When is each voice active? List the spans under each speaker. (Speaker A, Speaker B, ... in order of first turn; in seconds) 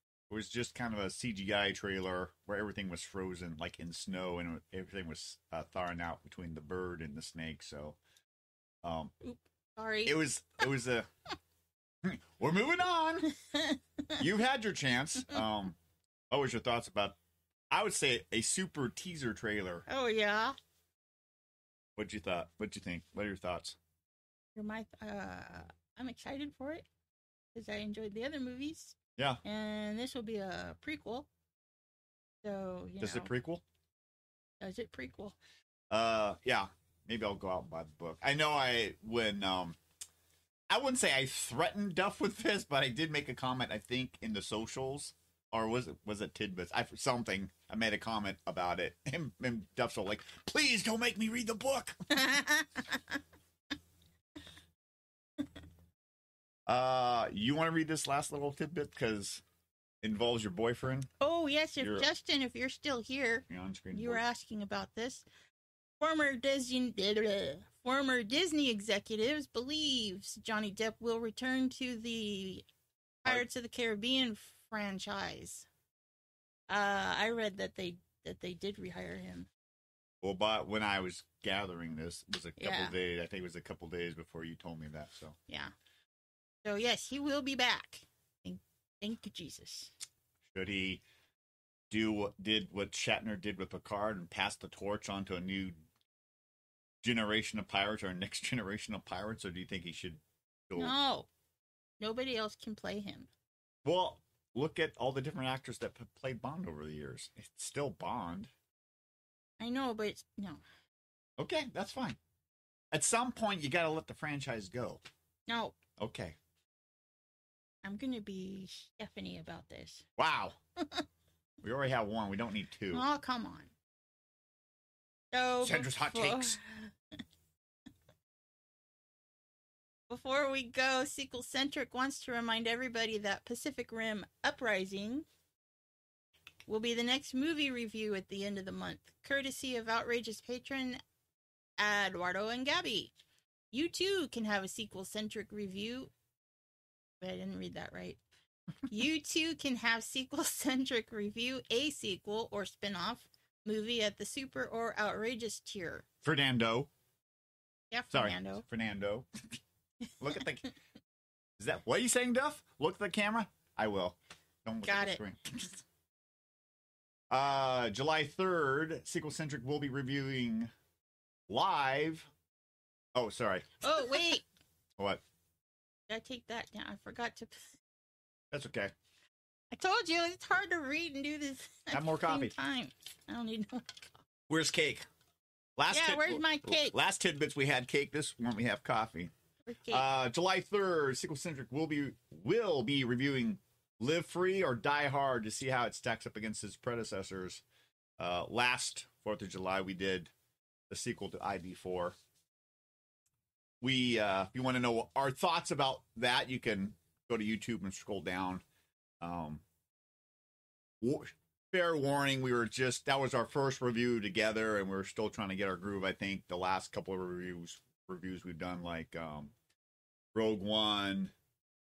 Speaker A: 0.3-8.0, 8.8-9.1, 10.0-11.1, 12.0-13.3, 14.2-15.8, 16.3-17.2, 17.7-19.9, 21.9-23.8, 33.0-33.6, 35.9-39.8, 40.7-52.0, 56.7-59.4, 60.0-61.1, 61.8-62.1, 63.5-64.2, 80.2-85.3, 90.5-91.0, 91.9-95.8, 97.0-101.0, 103.8-108.5, 111.4-112.2, 112.9-115.0, 116.0-116.3, 120.2-120.6, 121.6-123.0, 125.6-126.6, 156.2-156.9, 158.1-159.3, 160.2-160.7, 161.6-165.8, 167.3-170.7, 171.5-172.3, 173.1-174.3, 175.0-175.2, 178.5-178.9, 181.9-182.5, 184.5-185.1, 185.8-189.3, 189.9-197.6, 198.2-200.3, 200.9-202.1, 203.8-208.6, 209.2-209.6, 211.0-219.5, 220.3-221.3
Speaker B: 9.2-10.2, 13.5-14.2, 19.9-20.6, 24.5-26.9, 27.5-31.3, 32.4-33.3, 34.6-35.4, 52.1-53.2, 61.2-65.2, 66.0-72.6, 73.2-75.7, 76.7-79.5, 82.6-82.9, 85.5-85.7, 86.6-89.9, 100.7-101.3, 102.0-103.3, 109.6-110.6, 115.5-115.7, 117.8-120.0, 120.8-121.0, 122.9-123.7, 125.3-126.9, 130.1-135.2, 136.7-141.0, 141.8-143.1, 143.7-146.1, 147.2-148.2, 148.9-156.0, 157.9-158.6, 164.8-165.2, 173.8-174.4, 176.1-177.5, 179.7-184.1, 185.9-187.0, 189.7-190.0